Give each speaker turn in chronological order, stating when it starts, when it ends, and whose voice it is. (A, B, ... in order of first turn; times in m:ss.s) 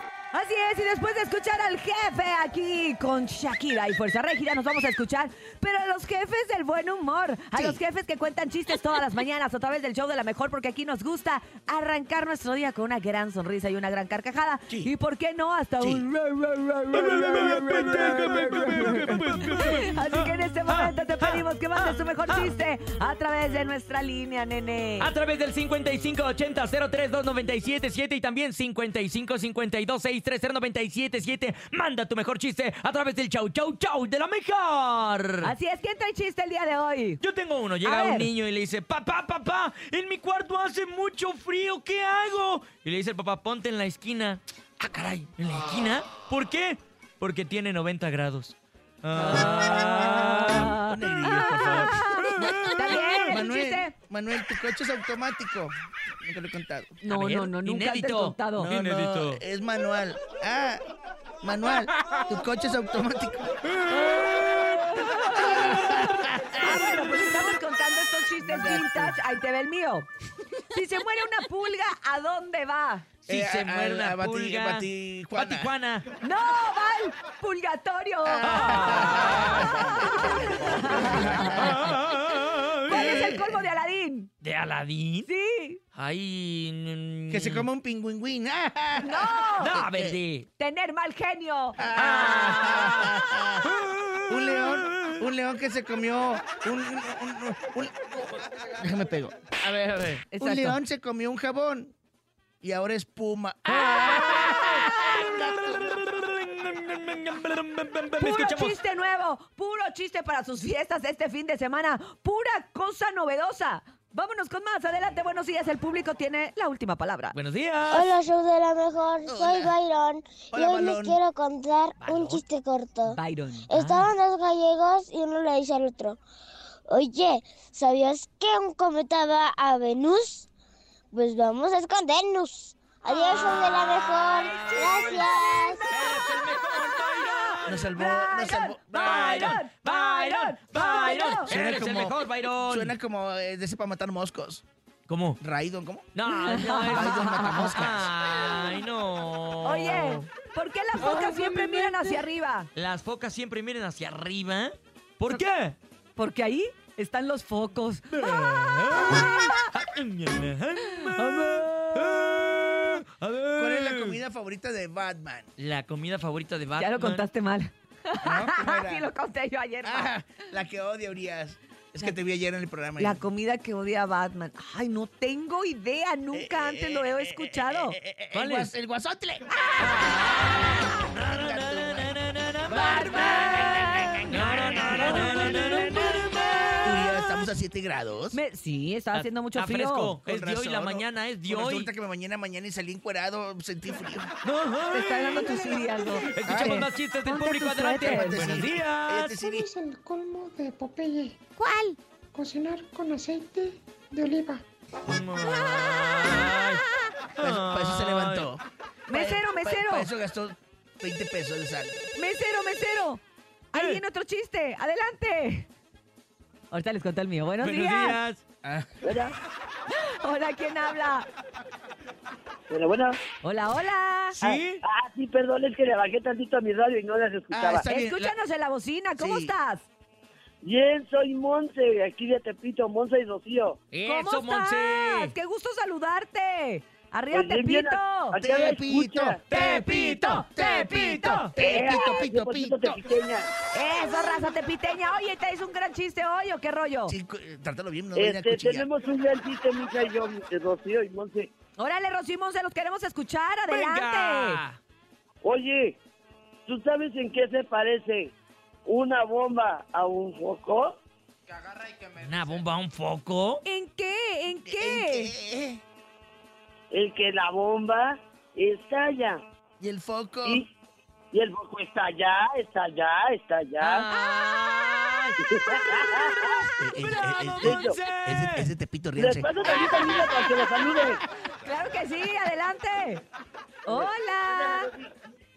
0:00.3-0:25.1 A
0:07.5-0:07.8 B
0:15.8-0:16.1 B
0:16.9-0:22.6 C
0:25.0-0:35.5 C
0:35.4-0:37.2 A
0:37.2-0:50.8 C
0:37.8-0:38.3 A
0:49.2-0:53.9 A
0:49.2-0:57.0 B
0:51.9-0:53.3 C
0:57.0-0:58.7 A
0:57.0-0:59.4 C
0:58.7-1:00.8 B
1:01.4-1:03.5 B
1:03.9-1:10.1 A
1:05.4-1:06.9 B
1:08.4-1:09.2 B
1:10.7-1:13.1 A
1:13.2-1:16.0 C
1:13.3-1:15.7 B
1:16.2-1:21.8 A
1:18.2-1:21.9 B
1:18.4-1:19.8 C
1:21.2-1:23.3 C
1:22.9-1:24.3 A
1:22.9-1:23.6 B
1:24.4-1:25.3 C
1:25.3-1:25.8 A
1:26.0-1:27.7 C
1:27.3-1:30.2 B
1:29.0-1:29.8 A
1:29.6-1:30.5 C
1:30.6-1:31.8 A
1:31.8-1:33.7 B
1:32.0-1:35.2 C
1:34.3-1:39.6 B
1:39.6-1:40.2 C
1:40.3-1:40.8 A
1:40.3-1:41.9 B
1:42.6-1:46.0 B
1:43.7-1:48.8 C
1:48.2-1:57.4 A
1:57.3-1:58.2 C
1:57.9-2:06.2 D
1:59.2-1:59.8 B
2:00.5-2:01.2 B
2:02.0-2:02.4 C
2:03.1-2:03.7 A
2:03.7-2:04.1 C
2:06.9-2:10.5 D
2:11.1-2:15.9 D
2:13.1-2:21.5 A
2:13.3-2:15.3 C
2:15.9-2:17.9 C
2:17.7-2:19.6 B
2:18.9-2:23.0 C
2:21.5-2:24.6 B
2:25.1-2:25.4 C
2:25.4-2:26.1 B
2:26.1-2:30.3 C
2:26.3-2:27.8 A
2:26.8-2:28.1 B
2:29.6-2:32.7 A
2:31.0-2:31.8 C
2:32.8-2:35.8 C
2:36.2-2:38.2 A
2:38.1-2:44.2 C
2:39.0-2:39.7 A
2:41.1-2:42.2 A
2:43.6-2:45.5 B
2:45.6-2:47.3 C
2:46.8-2:50.2 A
2:48.2-2:49.1 B
2:49.8-2:53.2 B
2:53.0-2:58.0 A
2:56.3-3:02.2 B
2:58.3-2:58.7 C
2:59.8-3:07.2 C
3:02.7-3:06.0 A
3:02.9-3:05.8 B
3:06.8-3:08.4 B
3:08.3-3:10.2 A
3:09.1-3:11.9 C
3:10.2-3:14.3 B
3:14.4-3:19.4 C
3:14.9-3:18.4 A
3:16.4-3:16.9 B
3:18.0-3:19.7 B
3:19.4-3:21.4 E
3:21.6-3:22.0 A
3:22.3-3:24.6 E
3:25.0-3:26.8 C
3:27.4-3:28.5 C
3:27.4-3:32.1 B
3:29.1-3:30.1 A
3:32.2-3:35.7 A
3:33.7-3:34.0 C
3:36.7-3:38.2 A
3:37.6-3:38.4 C
3:38.6-3:38.9 B
3:39.0-3:39.3 F
3:39.9-3:41.3 A
3:42.7-3:43.2 F
3:43.4-3:44.4 A
3:44.4-3:44.8 C
3:44.4-3:47.9 F
3:47.5-3:48.4 B
3:47.9-3:49.9 A
3:49.2-3:49.5 B
3:50.6-3:53.8 F
3:53.9-3:55.3 C
3:54.0-3:58.4 A
3:57.3-3:59.4 F
3:58.4-4:03.0 B
3:59.5-4:01.4 A
3:59.5-4:01.6 C
4:01.7-4:03.5 F
4:03.7-4:07.2 A
4:07.1-4:08.9 B
4:08.2-4:11.5 F
4:11.8-4:14.6 A
4:13.7-4:14.8 C
4:15.4-4:16.0 F
4:16.7-4:18.3 F
4:18.9-4:21.0 F
4:22.2-4:23.6 C
4:23.6-4:25.3 A
4:24.6-4:25.8 B
4:26.9-4:29.4 F
4:29.8-4:30.6 B
4:31.3-4:34.0 F
4:33.8-4:35.4 C
4:35.4-4:36.6 F
4:36.0-4:36.6 C
4:36.8-4:39.5 B
4:37.2-4:38.7 C
4:37.7-4:38.0 F
4:39.2-4:41.2 F
4:39.7-4:40.3 C
4:41.6-4:43.2 A
4:43.8-4:44.9 A
4:43.9-4:45.1 F